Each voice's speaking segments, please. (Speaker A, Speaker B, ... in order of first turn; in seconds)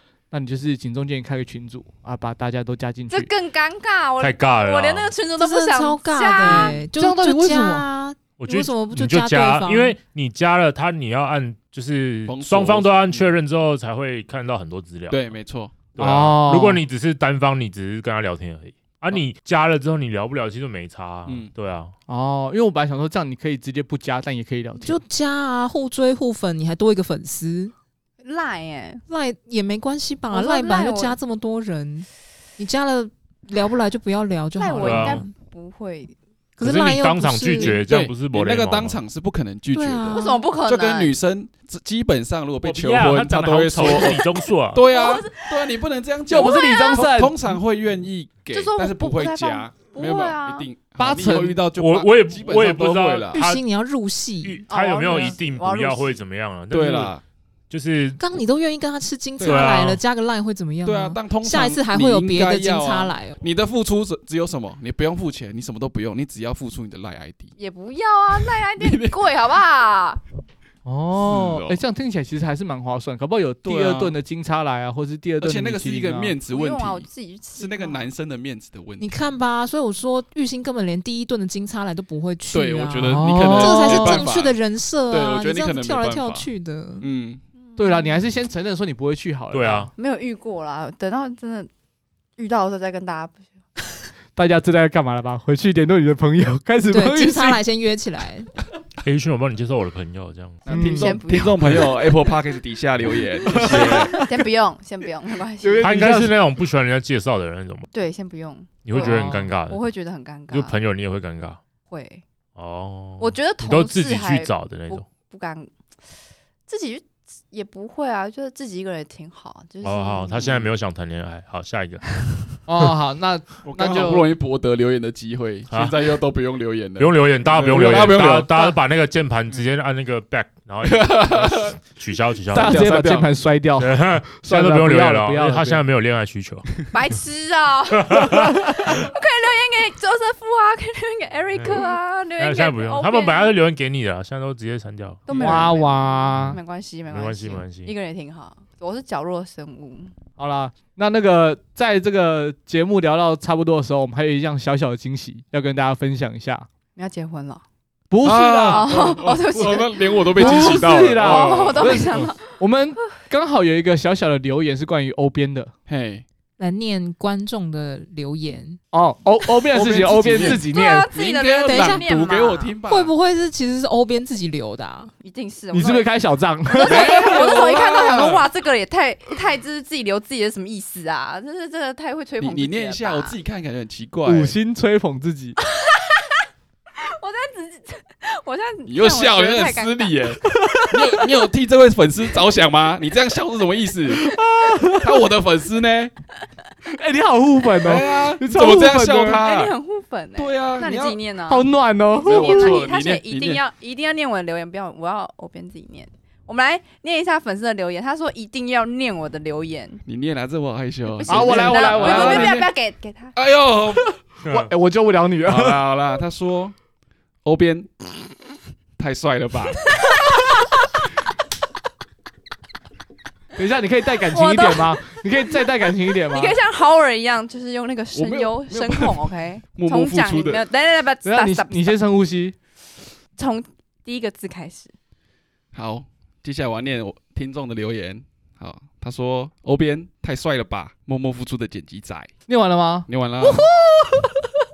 Speaker A: 0.3-3.3, 6.5-7.9, 15.9-16.8, 22.1-25.0, 46.3-47.6, 51.0-51.6, 70.9-76.4, 83.0-84.3, 87.8-89.9, 94.3-97.6, 100.7-101.2, 103.5-104.3, 105.6-106.3, 108.9-109.5, 122.7-124.3, 127.6-128.2, 132.5-135.8, 145.3-146.6, 150.4-156.7, 158.1-159.5, 160.3-165.7, 168.9-171.1, 175.7-177.4, 184.3-185.6, 190.4-191.0, 194.2-195.2, 196.9-199.4, 201.5-202.9, 211.3-212.7, 214.5-215.8, 223.6-226.6, 231.2-232.6, 242.5-243.1
Speaker B: 3.1-6.8, 28.2-29.0, 30.3-31.2, 34.6-36.1, 40.2-41.1, 44.9-45.7, 46.3-47.1, 48.5-50.7, 54.7-56.1, 67.6-70.2, 76.5-78.1, 87.7-88.1, 90.0-91.7, 92.4-93.6, 100.7-101.6, 103.6-106.2, 107.9-110.8, 111.9-112.2, 113.2-115.8, 116.7-120.4, 136.9-143.6, 145.3-150.2, 157.0-157.7, 158.7-162.5, 170.4-172.8, 175.2-176.1, 176.7-183.4, 185.6-186.4, 187.0-190.2, 199.2-210.0, 211.1-213.4, 224.3-225.0, 226.3-232.0, 233.4-234.9
Speaker C: 4.2-5.1, 8.4-15.3, 15.9-21.9, 34.8-35.2, 36.6-39.0, 42.6-44.8, 51.8-53.6, 54.4-57.1, 57.7-58.2, 59.4-60.0, 89.5-89.9, 99.0-100.7, 103.5-104.1, 105.8-107.9, 108.9-109.8, 110.5-111.6, 112.6-115.0, 119.8-122.6, 125.7-126.1, 127.0-132.8, 133.8-136.9, 137.9-139.0, 141.6-145.3, 146.3-147.9, 214.4-214.7
Speaker D: 5.4-10.0, 24.8-27.7, 29.1-35.3, 36.6-37.8, 39.7-40.4, 53.3-55.3, 58.2-63.4, 79.0-87.1, 96.9-98.5, 166.6-168.8, 171.7-175.1
Speaker E: 12.3-13.3, 15.1-15.9, 21.3-21.5, 37.6-53.4, 56.7-57.2, 59.4-59.8, 60.9-67.5, 68.8-69.2, 71.1-71.8, 73.7-74.2, 75.4-79.2, 82.5-84.6, 85.1-87.4, 100.7-104.1, 120.4-120.7, 123.6-128.8, 130.8-131.8, 132.6-133.4, 145.3-145.8, 158.2-162.2, 165.9-166.2, 169.7-173.1, 176.8-178.5, 182.4-184.6, 188.8-194.2, 194.9-196.1, 197.8-199.7, 200.4-201.2, 202.2-203.6, 210.1-212.7, 213.4-214.1, 215.4-216.8, 217.4-217.9, 219.0-219.9, 228.2-230.6, 235.7-242.3, 243.1-243.7